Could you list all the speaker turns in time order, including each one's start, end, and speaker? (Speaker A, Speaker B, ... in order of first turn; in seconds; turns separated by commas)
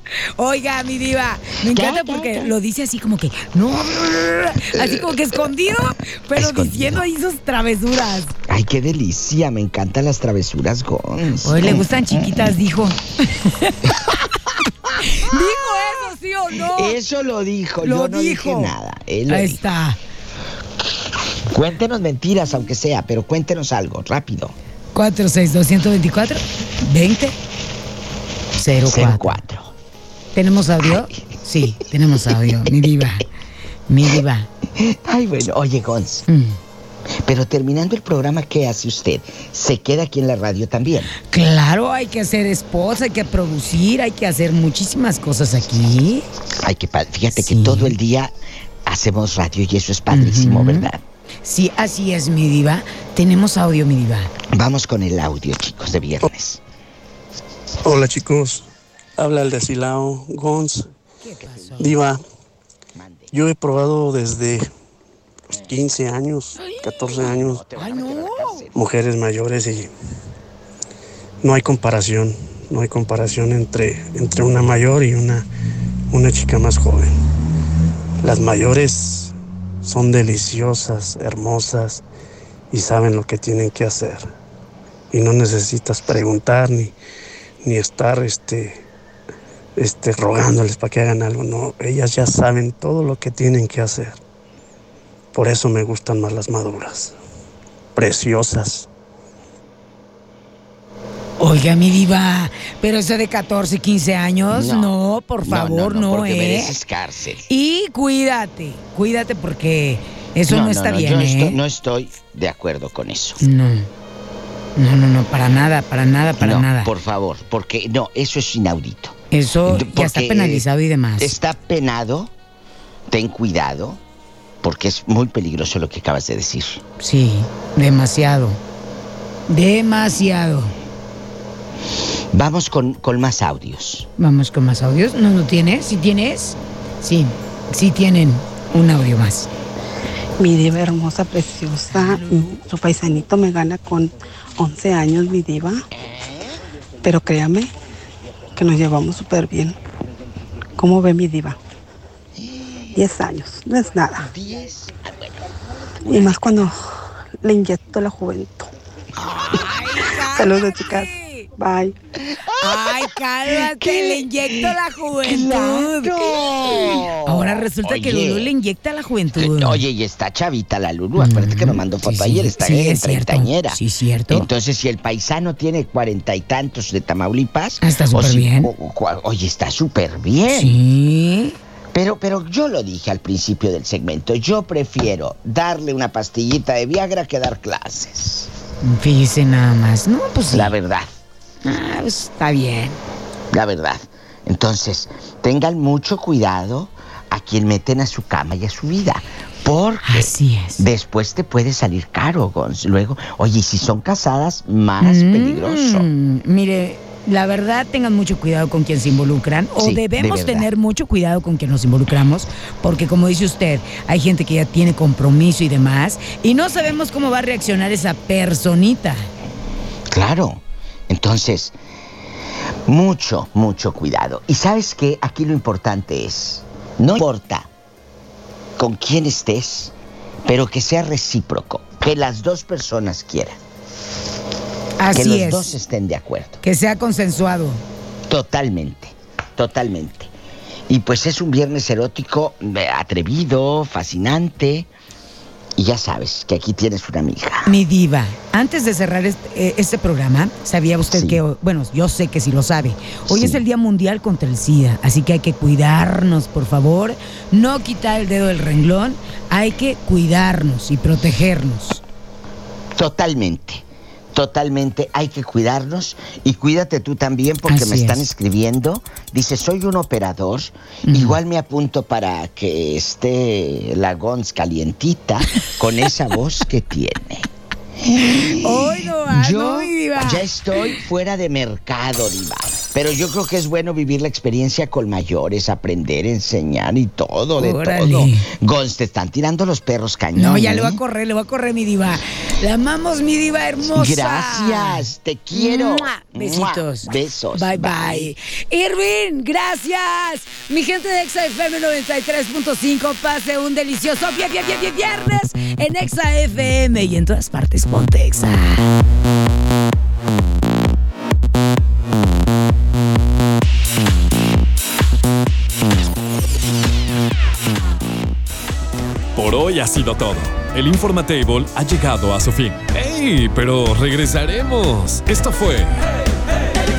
Speaker A: 0.4-8.3, Speaker B: 1.7-2.5, Speaker B: 4.7-5.2, Speaker B: 6.3-7.0, Speaker B: 8.5-12.5, Speaker A: 11.4-13.9, Speaker B: 13.8-14.2, Speaker A: 15.0-17.0, Speaker B: 16.7-19.6, Speaker A: 17.8-18.7, Speaker A: 19.3-20.0, Speaker B: 21.5-24.5, Speaker A: 24.9-27.4, Speaker A: 28.6-29.4, Speaker B: 28.8-29.7, Speaker A: 30.3-33.2, Speaker A: 33.9-34.5, Speaker B: 34.8-36.2, Speaker A: 36.3-36.6, Speaker B: 37.2-41.1, Speaker A: 41.2-46.2, Speaker B: 46.6-48.3, Speaker A: 47.3-47.9, Speaker B: 48.9-51.0, Speaker A: 50.1-50.9, Speaker A: 51.4-54.3, Speaker B: 54.5-56.6, Speaker C: 57.8-58.7, Speaker C: 59.2-60.9, Speaker A: 61.2-62.0, Speaker B: 61.5-61.8, Speaker C: 61.8-62.2, Speaker B: 62.9-63.3, Speaker C: 63.3-64.7, Speaker C: 65.5-67.6, Speaker A: 66.6-68.6, Speaker B: 67.1-68.8, Speaker C: 68.7-69.9, Speaker C: 71.4-75.5, Speaker C: 76.1-77.1, Speaker C: 78.2-82.0, Speaker C: 82.7-84.2, Speaker C: 85.1-87.0, Speaker C: 87.6-88.8, Speaker C: 89.8-94.2, Speaker C: 95.3-97.2, Speaker C: 97.9-98.9, Speaker A: 101.4-106.7, Speaker B: 104.5-104.9, Speaker B: 105.4-107.4, Speaker A: 107.5-111.6, Speaker B: 110.5-113.4, Speaker A: 113.4-113.9, Speaker A: 114.8-116.9, Speaker B: 116.4-120.6, Speaker A: 119.3-121.3, Speaker B: 121.2-122.3, Speaker B: 123.1-124.0, Speaker B: 124.6-126.8, Speaker A: 127.0-128.6, Speaker A: 129.5-130.7, Speaker B: 132.3-134.1, Speaker A: 134.2-139.5, Speaker D: 140.4-145.8, Speaker A: 141.9-142.5, Speaker B: 146.0-146.6, Speaker D: 147.0-147.7, Speaker D: 148.6-149.8, Speaker D: 150.8-151.6, Speaker B: 152.4-153.0, Speaker D: 152.9-154.3, Speaker B: 154.2-155.4, Speaker B: 156.0-156.4, Speaker D: 156.0-156.7, Speaker D: 157.4-158.7, Speaker B: 159.2-160.0, Speaker A: 159.5-161.5, Speaker D: 160.3-161.9, Speaker B: 162.3-168.5, Speaker A: 162.6-169.8, Speaker B: 169.4-173.8, Speaker A: 171.2-174.5, Speaker B: 174.3-180.8, Speaker A: 177.8-178.7, Speaker A: 180.5-181.6, Speaker B: 181.9-188.5, Speaker A: 188.8-190.7, Speaker B: 190.5-191.2, Speaker A: 191.6-193.0, Speaker B: 193.5-206.1, Speaker A: 200.0-200.8, Speaker A: 205.0-219.3, Speaker B: 209.8-210.7, Speaker B: 220.1-221.7, Speaker B: 222.9-227.7, Speaker B: 228.8-229.9, Speaker B: 230.4-233.6, Speaker A: 235.0-235.7, Speaker B: 235.1-236.6, Speaker A: 236.6-237.8, Speaker B: 238.3-240.3, Speaker B: 240.9-244.9, Speaker B: 245.8-247.7, Speaker A: 247.7-262.0, Speaker B: 251.1-251.4, Speaker B: 253.3-253.6, Speaker B: 262.9-277.5, Speaker A: 267.6-268.3, Speaker A: 271.0-271.4, Speaker B: 278.0-291.0, Speaker A: 278.6-281.0, Speaker A: 287.6-288.5, Speaker A: 290.3-308.8, Speaker B: 293.8-298.3, Speaker E: 319.3-326.0